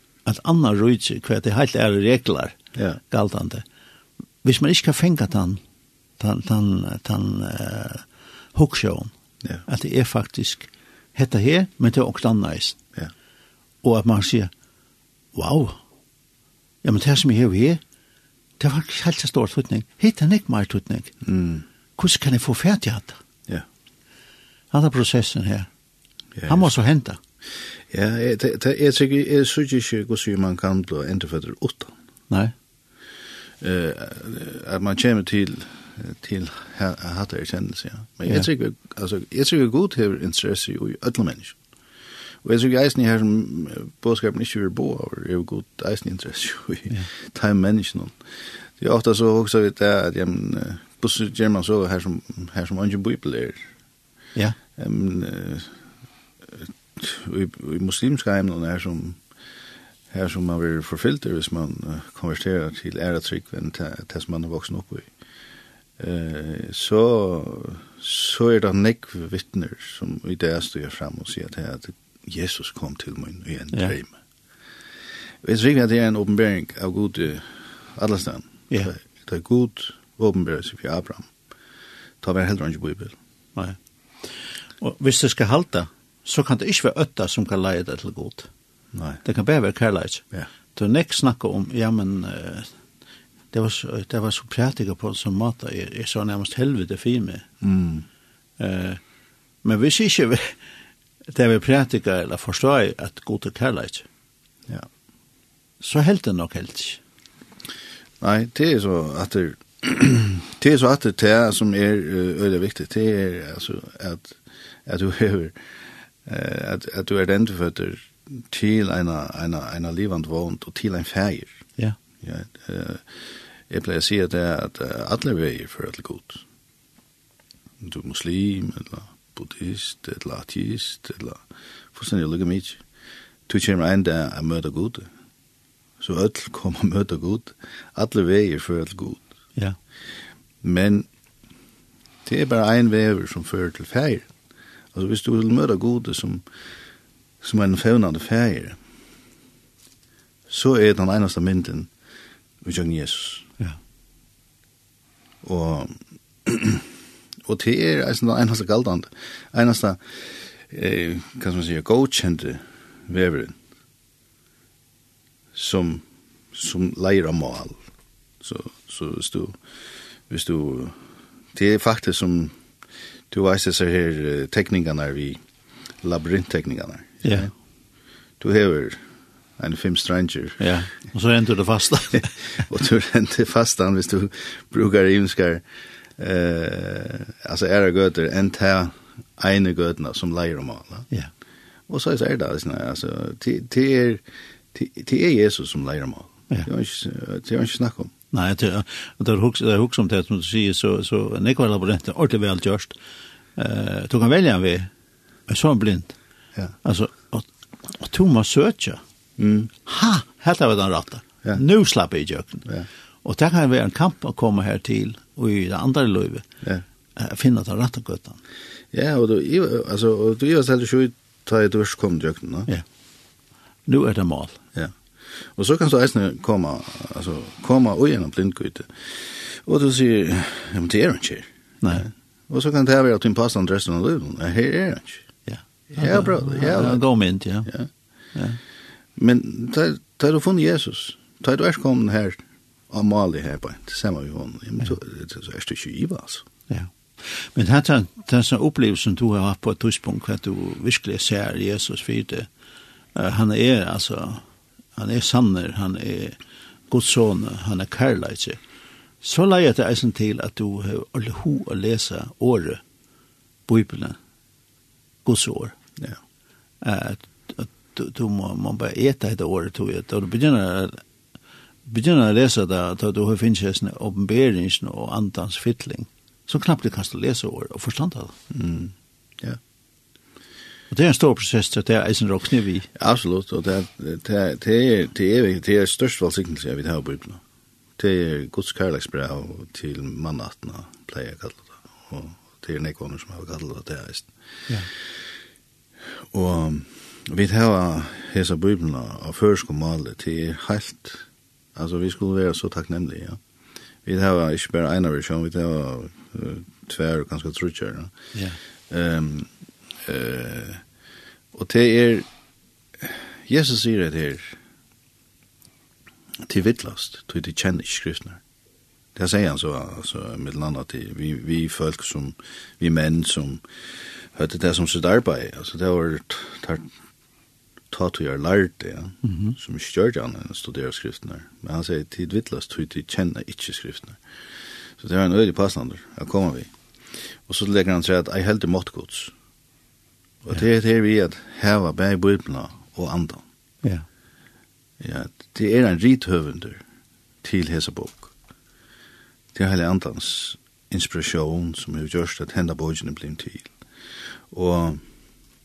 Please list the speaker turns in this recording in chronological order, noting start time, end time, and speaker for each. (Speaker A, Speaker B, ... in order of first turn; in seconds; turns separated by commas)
Speaker A: 0.2-2.6, Speaker A: 3.1-3.6, Speaker A: 4.4-5.6, Speaker A: 6.2-9.1, Speaker A: 9.7-12.8, Speaker A: 13.8-14.5, Speaker A: 15.3-15.8, Speaker A: 16.8-17.8, Speaker A: 18.6-21.1, Speaker B: 21.2-21.6, Speaker A: 22.0-23.2, Speaker A: 24.7-25.7, Speaker B: 26.3-26.7, Speaker A: 26.5-27.2, Speaker B: 27.9-31.9, Speaker B: 33.6-41.5, Speaker B: 42.4-48.2, Speaker B: 48.8-53.6, Speaker B: 54.8-55.8, Speaker B: 56.4-59.2, Speaker B: 60.1-65.1, Speaker B: 66.0-74.1, Speaker B: 75.4-81.3, Speaker B: 82.2-83.2, Speaker A: 84.8-88.5, Speaker B: 88.9-89.2, Speaker A: 89.2-90.2, Speaker A: 90.7-92.7, Speaker A: 93.5-97.5, Speaker B: 97.6-98.0, Speaker A: 98.6-99.0, Speaker A: 99.6-100.6, Speaker A: 101.3-104.0, Speaker A: 105.8-107.0, Speaker B: 108.2-115.6, Speaker B: 116.2-121.6, Speaker B: 122.2-126.4, Speaker B: 127.8-132.8, Speaker B: 133.5-135.1, Speaker B: 136.0-139.2, Speaker B: 140.6-141.1, Speaker B: 142.2-144.3, Speaker B: 144.9-146.4, Speaker B: 147.4-148.8, Speaker B: 150.5-151.9, Speaker B: 152.6-153.5, Speaker B: 155.4-156.9, Speaker B: 157.4-163.6, Speaker B: 165.5-167.8, Speaker B: 168.4-169.6, Speaker B: 170.3-171.0, Speaker B: 171.5-172.6, Speaker B: 173.3-175.4, Speaker B: 176.0-177.5, Speaker B: 178.4-179.0, Speaker B: 179.6-180.6, Speaker A: 180.6-182.3, Speaker B: 182.2-185.6, Speaker B: 186.2-191.1, Speaker B: 191.9-194.2, Speaker B: 194.7-198.1, Speaker A: 198.3-202.9, Speaker A: 203.6-204.9, Speaker A: 205.5-206.2, Speaker A: 206.8-209.0, Speaker B: 209.4-209.7, Speaker A: 209.8-212.7, Speaker A: 213.2-216.5, Speaker A: 217.2-218.4, Speaker B: 218.9-222.7, Speaker A: 223.8-224.6, Speaker B: 225.5-235.2, Speaker A: 231.8-232.1, Speaker A: 235.4-237.7, Speaker B: 235.9-237.1, Speaker B: 237.7-237.9, Speaker A: 238.3-238.6, Speaker B: 239.2-246.4, Speaker A: 246.7-252.5, Speaker A: 253.1-254.4, Speaker A: 254.9-256.4, Speaker A: 256.9-258.6, Speaker A: 259.2-262.8, Speaker A: 263.7-264.2, Speaker A: 265.2-265.8, Speaker A: 266.8-271.0, Speaker A: 271.9-278.3, Speaker B: 278.5-279.6, Speaker A: 280.9-282.9, Speaker B: 282.9-287.4, Speaker B: 288.0-294.3, Speaker B: 296.3-303.4, Speaker B: 304.0-308.1, Speaker A: 308.3-308.6, Speaker B: 308.9-309.5, Speaker B: 310.0-310.8, Speaker B: 311.5-312.3, Speaker B: 313.0-314.6, Speaker B: 316.4-318.4, Speaker B: 319.1-323.6, Speaker B: 324.3-326.9, Speaker B: 327.9-334.2, Speaker A: 329.2-329.6, Speaker B: 335.0-339.3, Speaker B: 340.4-343.4, Speaker B: 345.0-346.8, Speaker B: 347.4-348.3, Speaker B: 349.5-353.7, Speaker B: 354.5-355.0